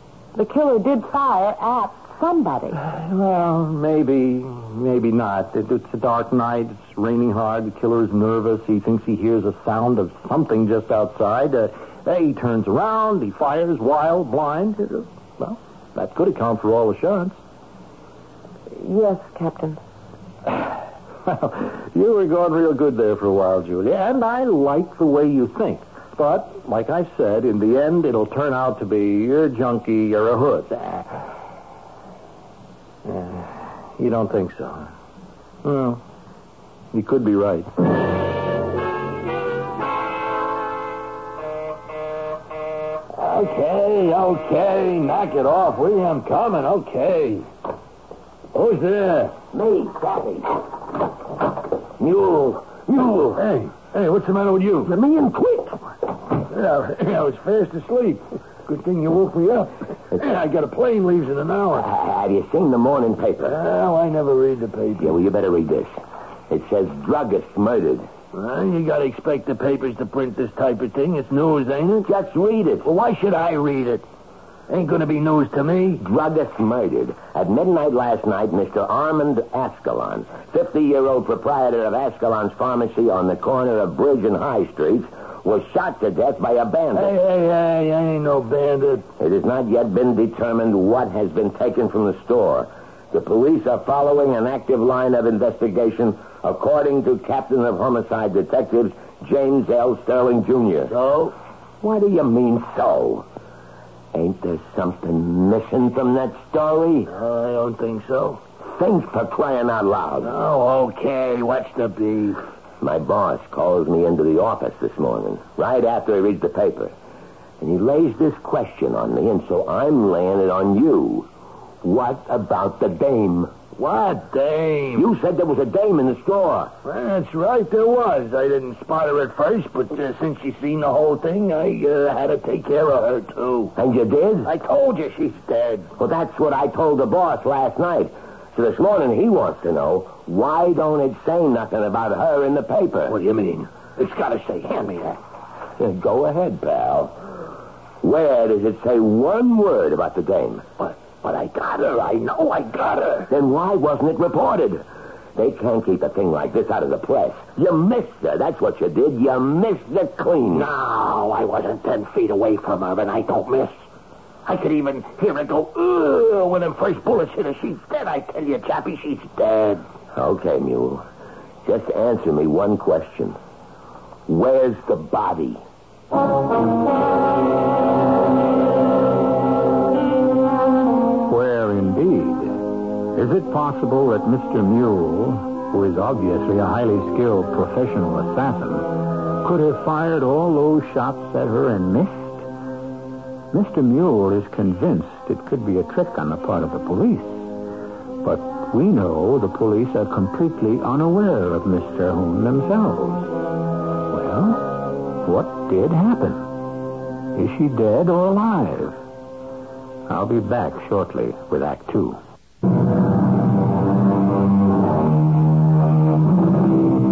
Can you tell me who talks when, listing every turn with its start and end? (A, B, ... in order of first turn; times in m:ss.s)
0:00.4-0:02.8 A
0:02.9-0:17.4 B
0:18.7-0:19.8 A
0:21.2-0:31.2 B
0:33.1-0:34.9 B
0:35.6-0:36.0 B
0:36.9-0:37.7 B
0:43.1-0:47.5 C
0:48.5-0:49.4 C
0:49.5-0:50.6 D
0:52.0-0:53.4 D
0:53.4-0:54.9 C
0:54.8-0:55.8 D
0:56.4-1:01.9 C
1:01.7-1:03.6 D
1:03.4-1:05.2 C
1:05.0-1:06.0 D
1:06.5-1:08.1 D
1:08.3-1:12.1 C
1:12.0-1:12.9 D
1:12.8-1:14.0 C
1:14.7-1:16.0 C
1:16.0-1:27.2 D
1:26.9-1:29.1 C
1:29.2-1:41.0 D
1:40.9-1:41.3 C
1:41.8-1:43.3 D
1:44.1-1:47.1 D
1:47.1-1:48.4 C
1:48.7-1:50.4 D
1:50.2-1:52.4 C
1:52.8-1:56.9 D
1:57.6-2:01.3 D
2:01.8-2:03.6 D
2:03.8-2:05.1 C
2:05.0-2:06.7 D
2:06.8-2:13.7 C
2:13.8-2:14.5 D
2:14.4-2:15.9 C
2:16.0-2:23.2 D
2:23.1-2:25.2 C
2:25.8-2:27.2 D
2:28.0-2:30.7 D
2:30.8-2:33.3 C
2:33.3-2:40.7 D
2:40.5-2:43.8 C
2:44.5-2:49.8 C
2:50.1-2:51.0 D
2:51.6-2:53.4 D
2:54.3-2:55.6 D
3:01.3-3:12.5 E
3:13.5-3:17.5 E
3:18.2-3:23.3 E
3:24.1-3:26.5 E
3:27.3-3:29.0 E
3:30.1-3:32.2 E